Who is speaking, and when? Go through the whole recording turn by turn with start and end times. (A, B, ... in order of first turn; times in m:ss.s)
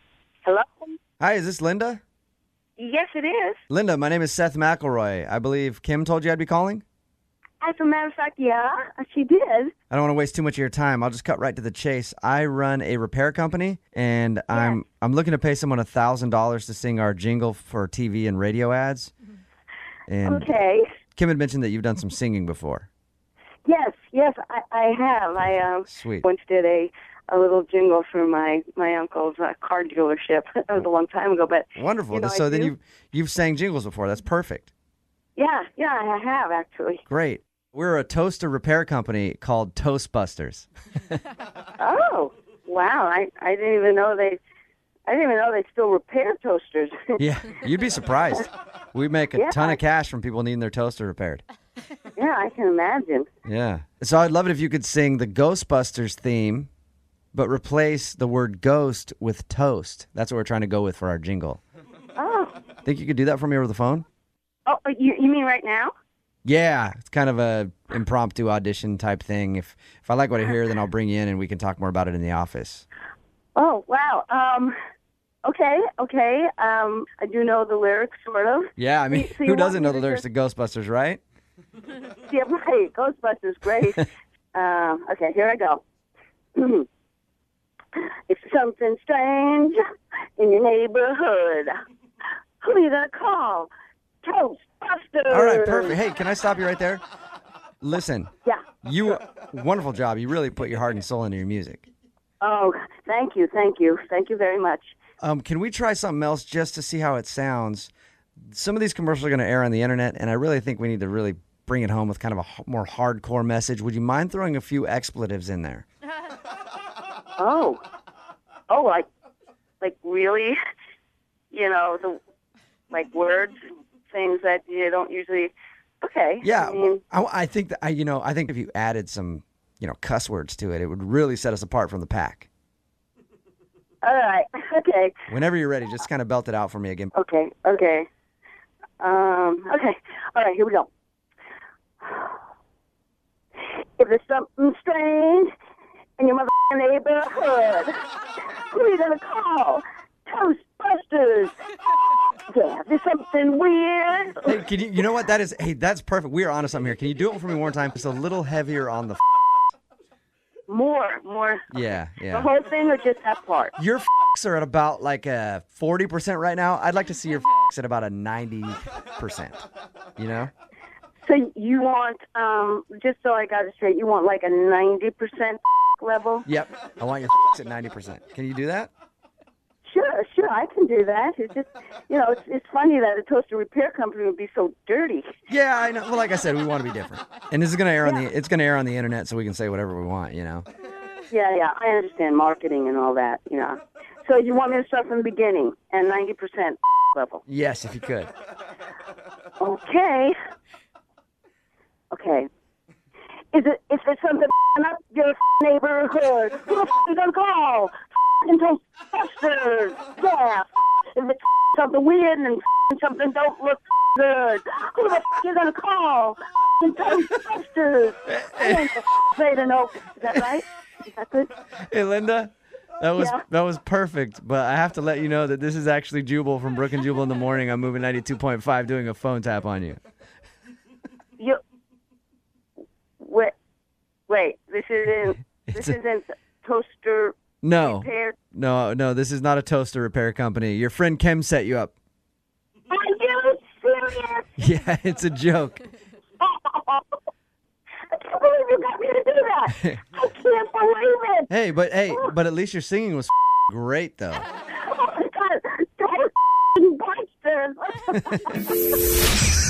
0:00.4-0:00.9 A
0:01.2-0:02.0 B
0:02.8-0:03.6 A
0:03.7-0:06.8 B
0:07.6-0:09.7 A
0:09.9-0:19.1 B
0:14.5-0:14.8 A
0:20.1-0:20.5 B
0:20.2-0:20.8 A
0:21.2-0:22.9 B
0:23.6-0:32.7 A
0:25.9-0:26.2 B
0:31.8-0:34.7 B
0:35.4-0:37.0 A
0:37.1-0:41.2 B
0:41.8-0:44.4 A
0:45.1-0:47.2 A
0:47.2-0:51.4 B
0:49.4-0:49.8 A
0:52.2-0:53.3 A
0:53.4-0:56.7 B
0:57.3-1:01.6 B
1:02.2-1:02.6 A
1:02.8-1:04.0 B
1:04.7-1:05.9 A
1:06.4-1:12.9 B
1:13.6-1:14.7 A
1:15.4-1:20.2 A
1:18.8-1:21.2 B
1:22.2-1:25.8 A
1:26.6-1:26.9 A
1:28.0-1:29.8 A
1:30.4-1:31.7 A
1:32.6-1:33.7 A
1:34.2-1:36.0 A
1:35.3-1:37.0 B
1:37.8-1:38.3 B
1:38.8-1:41.9 B
1:42.4-1:44.9 A
1:45.2-1:47.9 B
1:48.5-1:55.8 B
1:57.4-1:57.8 A
1:58.7-1:59.0 A
1:59.8-2:00.6 A
2:01.5-2:02.2 A
2:02.9-2:03.6 A
2:04.1-2:07.0 A
2:06.4-2:12.5 B
2:14.0-2:15.2 A
2:15.3-2:17.1 B
2:17.2-2:18.1 A
2:19.0-2:20.9 A
2:22.0-2:22.4 A
2:23.6-2:25.5 A
2:26.2-2:27.9 A
2:28.7-2:31.5 A
2:32.5-2:34.6 A
2:34.4-2:39.2 B
2:40.7-2:43.8 A
2:41.7-2:42.5 B
2:43.8-2:49.6 B
2:50.2-2:50.5 B
2:51.2-2:56.5 A
2:56.4-2:58.9 B
2:59.9-3:05.3 A
3:05.5-3:10.7 B
3:08.0-3:08.3 A
3:11.3-3:17.4 A
3:17.5-3:18.3 B
3:19.6-3:20.3 A
3:22.1-3:22.5 A
3:23.5-3:27.9 A
3:28.4-3:41.5 A
3:38.3-3:38.9 B
3:41.8-3:50.0 B
3:43.2-3:43.4 A
3:53.2-3:53.5 A
3:54.3-3:58.4 A
3:55.7-3:56.0 B
3:57.6-4:01.9 B
4:02.9-4:04.6 A
4:04.6-4:05.8 B
4:06.4-4:07.2 A
4:08.1-4:11.5 A
4:11.5-4:14.5 B
4:12.1-4:12.3 A
4:14.7-4:18.7 A